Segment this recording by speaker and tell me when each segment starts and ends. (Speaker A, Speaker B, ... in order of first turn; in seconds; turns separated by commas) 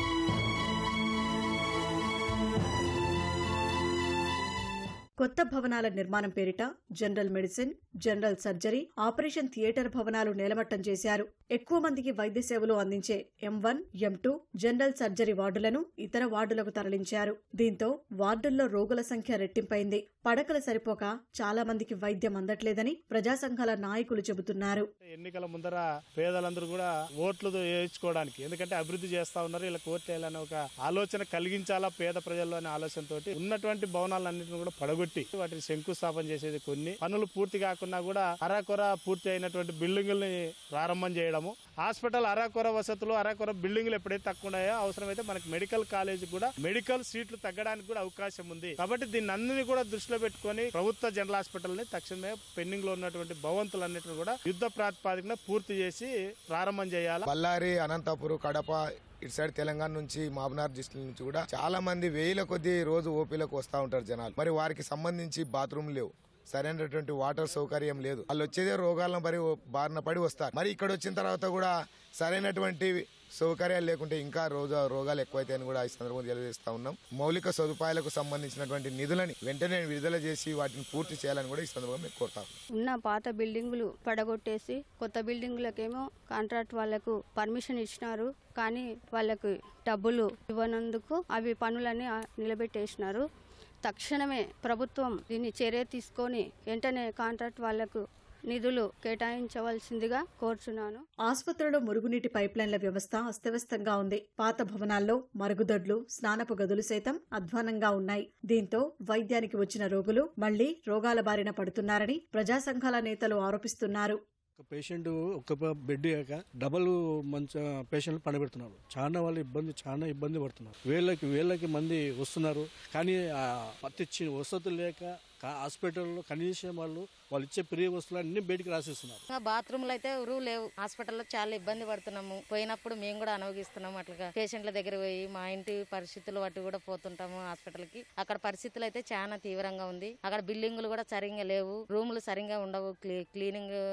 Speaker A: 5.2-24.9, Speaker B: 25.0-57.2, Speaker C: 57.3-82.5, Speaker D: 82.7-93.2, Speaker D: 93.8-101.0, Speaker A: 101.2-114.2, Speaker E: 114.6-129.2, Speaker F: 129.3-143.7